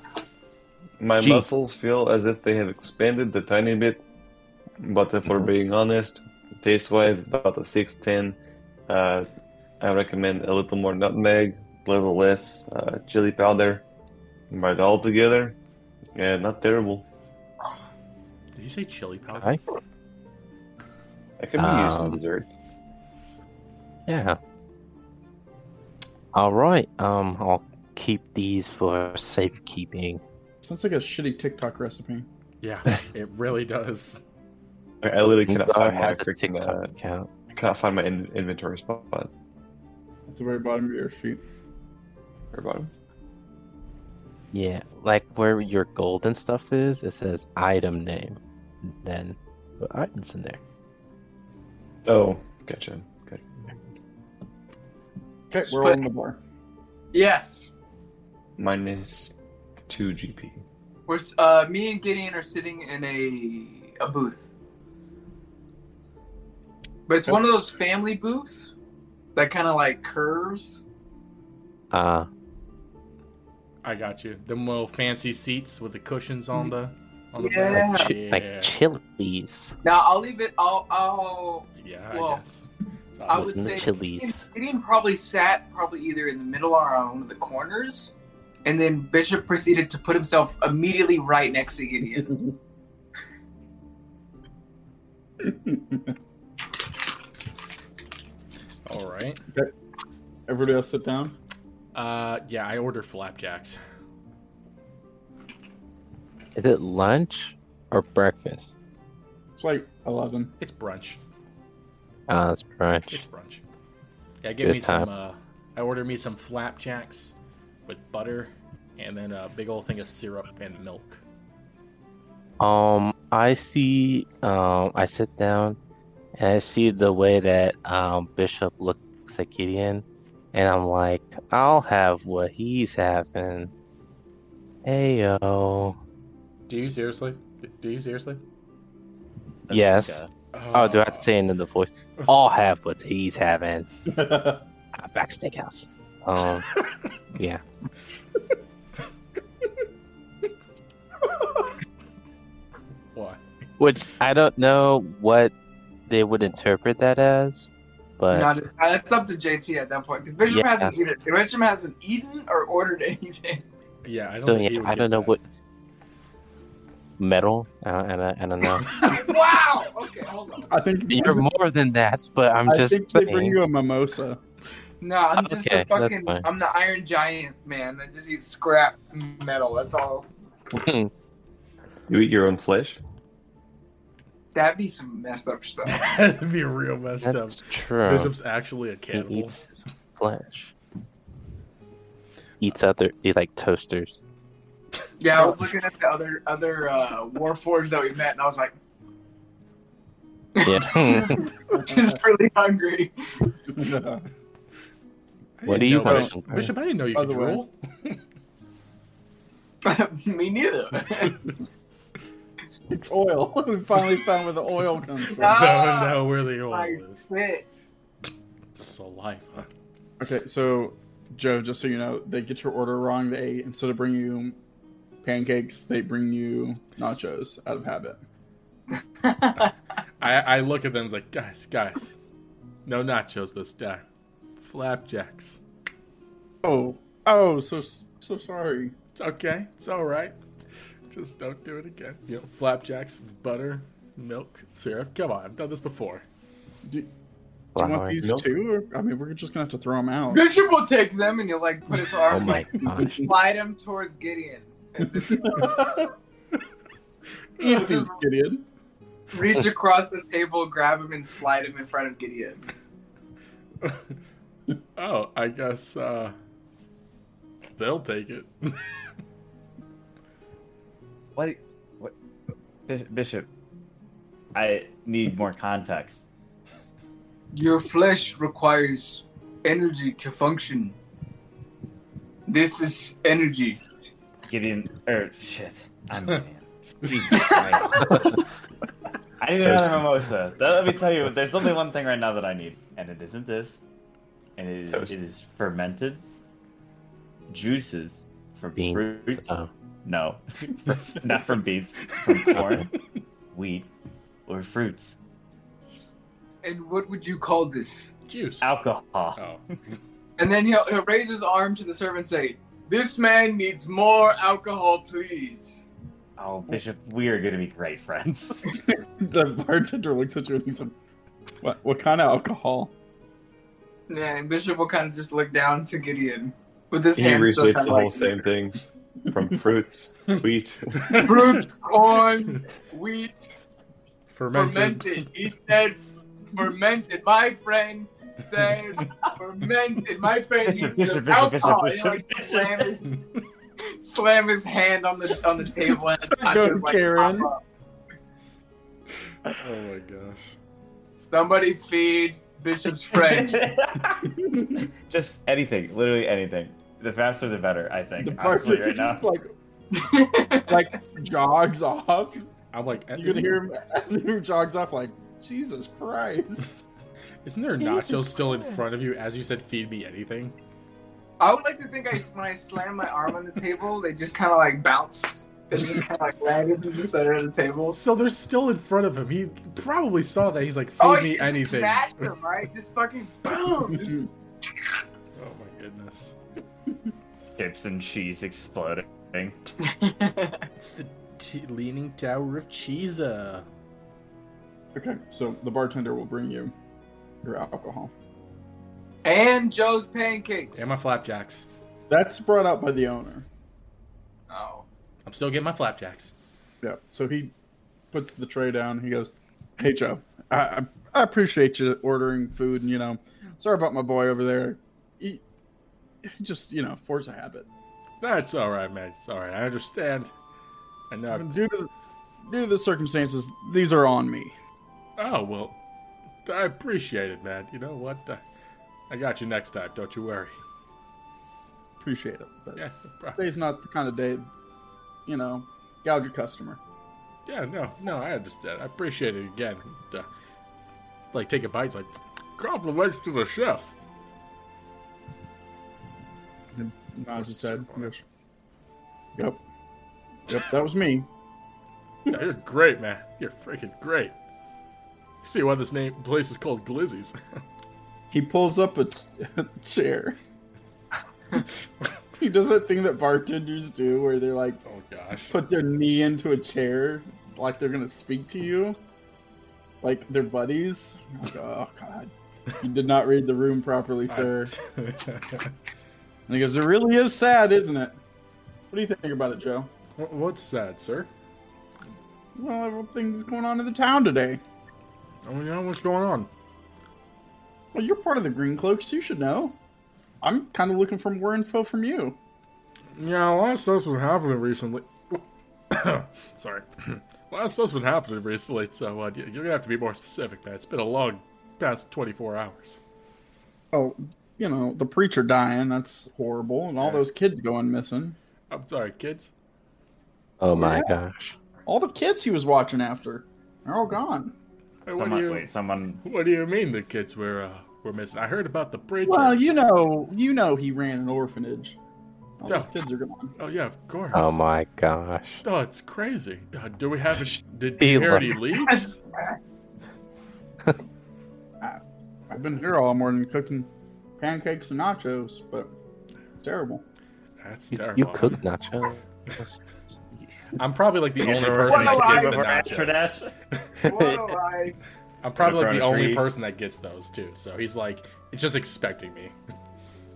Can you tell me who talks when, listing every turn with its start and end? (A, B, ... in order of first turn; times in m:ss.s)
0:01.0-0:04.0 A
0:01.2-0:01.5 B
0:04.8-0:08.4 A
0:08.9-0:09.3 A
0:09.8-0:13.8 A
0:14.5-0:15.6 A
0:16.2-0:17.0 A
0:18.6-0:19.6 C
0:21.4-0:22.5 A
0:21.6-0:22.2 B
0:24.1-0:24.4 B
0:26.3-0:30.2 B
0:30.6-0:32.3 D
0:32.6-0:34.2 C
0:35.0-0:36.9 A
0:35.5-0:37.3 B
0:37.5-0:39.3 A
0:40.3-0:41.4 D
0:42.5-0:42.9 A
0:44.5-0:50.6 B
0:52.1-0:53.9 A
0:55.5-0:56.4 D
0:55.7-0:56.0 E
0:57.1-0:57.7 E
0:58.6-0:59.4 A
0:59.9-1:00.6 A
1:01.1-1:04.5 E
1:07.1-1:08.7 E
1:09.4-1:10.8 E
1:11.9-1:12.3 B
1:13.8-1:18.7 C
1:17.4-1:18.1 E
1:17.7-1:19.8 B
1:19.8-1:22.4 E
1:21.8-1:23.7 C
1:23.3-1:28.1 E
1:23.3-1:24.5 B
1:28.6-1:32.4 E
1:32.2-1:32.5 D
1:35.4-1:36.2 D
1:38.9-1:39.4 C
1:40.5-1:41.4 D
1:41.9-1:43.8 C
1:46.6-1:48.7 B
1:49.6-1:50.5 D
1:50.6-1:51.2 C
1:52.3-1:53.2 B
1:53.1-1:53.6 C
1:54.4-1:57.4 C
1:54.6-1:55.1 B
1:57.9-2:01.2 C
2:02.6-2:05.8 B
2:06.4-2:13.7 B
2:14.8-2:16.0 B
2:16.7-2:18.4 C
2:19.7-2:20.3 F
2:19.7-2:23.9 B
2:20.5-2:21.3 C
2:24.1-2:24.6 D
2:25.0-2:26.8 B
2:27.4-2:27.6 B
2:33.1-2:33.4 C
2:33.8-2:35.5 B
2:36.1-2:38.5 B
2:38.3-2:43.6 E
2:40.5-2:40.9 B
2:44.0-2:45.4 C
2:44.4-2:45.4 B
2:47.2-2:49.1 B
2:48.8-2:50.7 E
2:50.7-2:51.5 D
2:51.1-2:53.6 B
2:52.6-2:54.4 D
2:55.0-3:00.3 E
2:55.4-2:56.5 B
3:00.7-3:01.1 B
3:02.1-3:03.0 A
3:04.5-3:06.0 E
3:05.8-3:09.6 C
3:07.2-3:08.3 B
3:09.1-3:10.7 B
3:12.6-3:14.2 B
3:15.2-3:18.7 E
3:20.6-3:23.1 E
3:20.6-3:21.5 B
3:21.7-3:22.2 D
3:23.7-3:24.2 D
3:25.6-3:27.7 C
3:25.7-3:26.7 B
3:25.8-3:26.3 D
3:27.1-3:27.6 D
3:29.8-3:31.4 E
3:32.9-3:35.5 D
3:35.3-3:37.8 E
3:35.3-3:37.3 C
3:38.8-3:39.7 C
3:40.2-3:44.6 D
3:45.2-3:48.2 D
3:47.0-3:47.3 C
3:49.2-3:49.7 E
3:49.6-3:52.2 C
3:52.9-3:54.0 C
3:54.6-3:55.6 C
3:56.6-3:59.0 D
3:59.2-4:00.4 C
4:01.1-4:06.2 C
4:07.8-4:10.5 D
4:07.8-4:08.2 B
4:10.3-4:16.1 E
4:12.3-4:13.3 B
4:12.9-4:13.3 D
4:15.0-4:16.1 D
4:17.6-4:18.6 D
4:17.6-4:18.2 E
4:19.3-4:22.7 E
4:25.0-4:26.4 C
4:27.8-4:28.8 C
4:31.4-4:32.1 F
4:32.9-4:33.5 F
4:34.5-4:36.2 F
4:37.5-4:41.0 E
4:42.5-4:43.8 E
4:44.5-4:48.3 F
4:47.0-4:47.4 C
4:47.3-4:48.0 E
4:48.0-4:48.3 B
4:49.4-4:53.8 F
4:49.6-4:50.1 A
4:54.6-4:56.2 F
4:57.5-5:02.9 F
4:58.8-4:59.7 B
5:02.2-5:02.7 C
5:03.5-5:03.9 F
5:04.5-5:05.2 F
5:06.6-5:08.1 E
5:08.3-5:08.7 C
5:08.6-5:09.4 F
5:09.4-5:09.6 C
5:10.4-5:15.8 E
5:16.4-5:18.7 F
5:18.8-5:21.0 D
5:21.6-5:22.9 D
5:24.1-5:28.4 E
5:27.2-5:28.8 A
5:29.3-5:31.3 A
5:31.0-5:31.7 C
5:31.2-5:33.4 E
5:34.3-5:35.3 C
5:34.5-5:36.0 E
5:36.5-5:43.0 E
5:40.6-5:43.0 F
5:43.1-5:43.4 C
5:43.8-5:47.6 E
5:46.2-5:47.5 D
5:49.6-5:50.6 C
5:51.3-5:53.7 E
5:53.1-5:54.3 F
5:54.4-5:54.9 D
5:55.1-5:59.3 F
5:58.2-5:59.5 D
5:59.9-6:00.8 E
6:00.7-6:02.5 D
6:02.7-6:03.6 C
6:03.2-6:06.8 D
6:07.4-6:10.6 C
6:11.4-6:18.0 E
6:17.9-6:22.3 C
6:21.0-6:24.2 E
6:23.9-6:24.3 D
6:25.4-6:26.4 C
6:27.6-6:29.6 F
6:29.8-6:30.6 E
6:30.8-6:33.7 C
6:35.0-6:36.7 D
6:37.4-6:38.1 D
6:39.2-6:40.9 E
6:40.8-6:41.7 C
6:42.1-6:43.5 D
6:44.5-6:44.9 E
6:45.3-6:46.3 C
6:46.8-6:47.5 D
6:48.1-6:55.4 D
6:56.2-6:57.7 D
6:58.2-7:00.3 C
7:01.1-7:01.6 C
7:01.3-7:01.9 D
7:02.4-7:04.6 D
7:05.2-7:05.8 C
7:06.4-7:08.4 C
7:09.1-7:10.6 C
7:12.0-7:12.8 D
7:12.8-7:13.4 C
7:13.4-7:14.5 D
7:15.3-7:16.8 D
7:17.5-7:20.3 C
7:21.3-7:23.9 C
7:26.8-7:28.2 D
7:27.3-7:28.1 C
7:29.4-7:29.6 D
7:30.5-7:31.3 D
7:32.3-7:34.3 C
7:35.4-7:37.6 C
7:38.3-7:40.4 D
7:42.4-7:44.8 D
7:44.8-7:45.6 C
7:45.5-7:49.0 D
7:50.0-7:54.7 D
7:54.3-7:55.7 C
7:56.5-7:58.2 D
7:58.9-7:59.9 D
8:00.2-8:01.3 C
8:02.6-8:04.6 D
8:05.4-8:06.5 C
8:07.9-8:09.8 D
8:10.4-8:12.4 D
8:13.2-8:23.0 C
8:23.9-8:28.4 D
8:27.0-8:27.3 C
8:28.7-8:29.5 C
8:30.6-8:31.6 B
8:30.7-8:31.2 D
8:31.9-8:34.6 D
8:35.1-8:35.7 C
8:35.2-8:36.2 F
8:36.2-8:39.7 C
8:39.3-8:42.0 D
8:42.6-8:43.6 D
8:42.7-8:42.9 C
8:43.6-8:44.6 C
8:44.3-8:45.6 B
8:45.6-8:49.2 C
8:48.0-8:48.6 B
8:48.8-8:49.6 E
8:51.8-8:55.9 D
8:56.6-8:57.0 D
8:57.6-8:58.6 C
8:57.9-8:59.2 B
9:00.8-9:03.4 C
9:01.4-9:03.5 F
9:01.6-9:02.7 E
9:04.0-9:05.0 E
9:05.4-9:09.6 C
9:05.6-9:06.5 F